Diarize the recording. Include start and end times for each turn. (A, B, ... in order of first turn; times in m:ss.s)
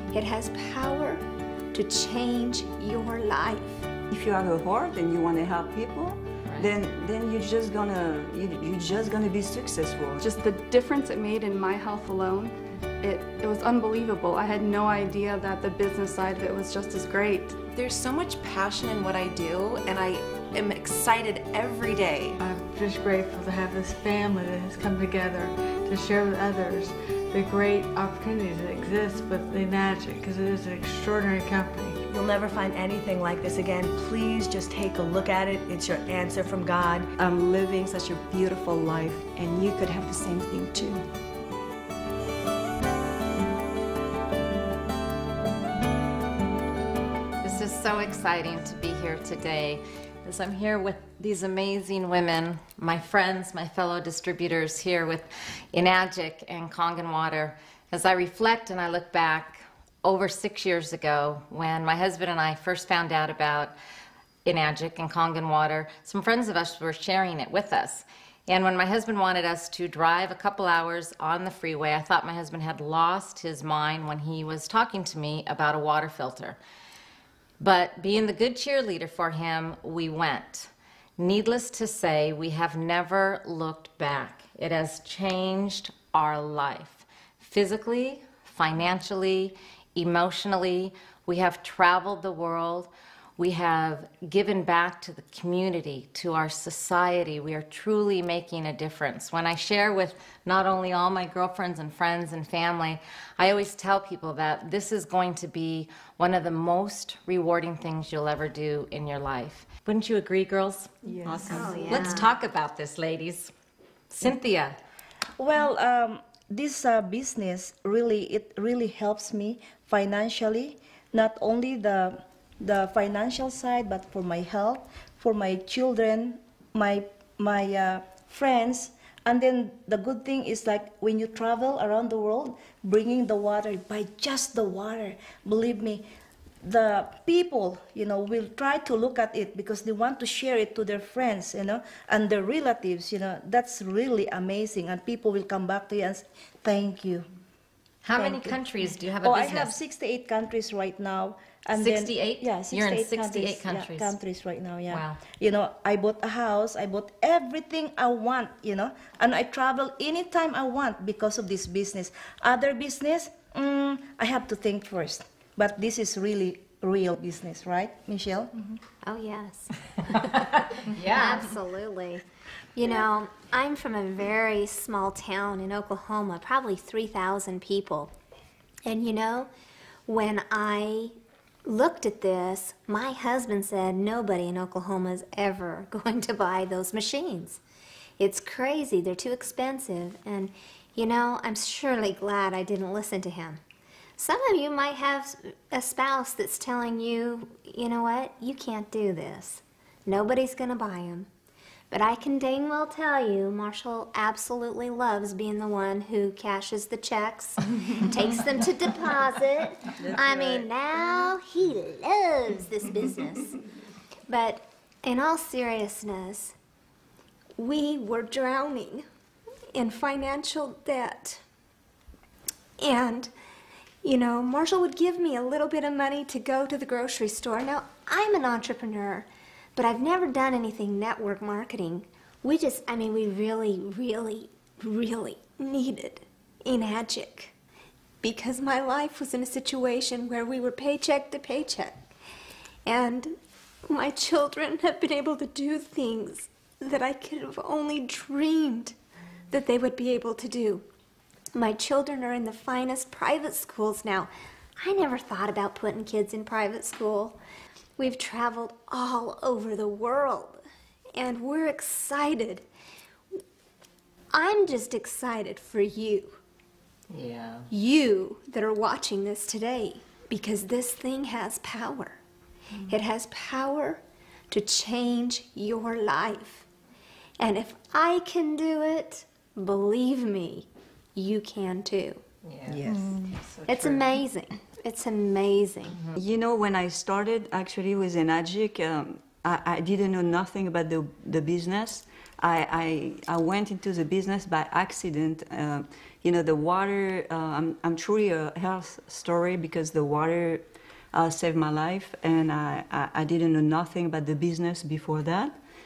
0:00.1-0:03.9 A
0:04.1-0:10.2 B
0:10.2-0:17.6 C
0:17.7-0:22.4 D
0:22.4-0:32.0 E
0:32.1-0:37.1 F
0:37.2-0:41.0 G
0:47.4-1:03.7 H
1:04.4-1:16.6 H
1:17.6-1:50.9 H
1:51.3-1:51.8 B
1:51.5-1:53.5 H
1:51.5-1:52.3 A
1:51.6-1:52.0 I
1:54.1-1:54.8 H
1:55.4-2:16.1 I
2:16.6-2:27.3 I
2:28.0-2:29.8 H
2:28.1-2:28.6 I
2:29.2-2:48.5 I
2:31.7-2:34.2 H
2:34.9-2:35.2 H
2:49.0-2:50.2 A
2:50.7-2:51.5 H
2:51.0-2:52.2 A
2:52.8-2:58.1 A
2:58.8-2:59.5 A
3:00.1-3:07.6 A
3:08.2-3:13.6 A
3:14.2-3:21.3 A
3:21.9-3:33.6 A
3:30.0-3:30.7 B
3:34.3-3:36.6 A
3:37.6-3:39.1 A
3:39.7-3:41.4 A
3:42.8-3:43.3 A
3:44.0-3:57.5 A
3:58.2-4:02.0 A
4:02.9-4:03.4 A
4:03.9-4:09.0 A
4:09.5-4:10.9 A
4:11.5-4:17.4 A
4:18.0-4:20.6 A
4:21.2-4:22.7 A
4:24.3-4:26.4 A
4:27.1-4:27.7 H
4:27.7-4:32.2 A
4:32.9-4:36.6 A
4:37.4-4:42.2 A
4:42.4-4:42.8 H
4:42.7-4:43.2 I
4:43.5-4:44.0 H
4:43.7-4:46.0 A
4:46.1-5:05.6 B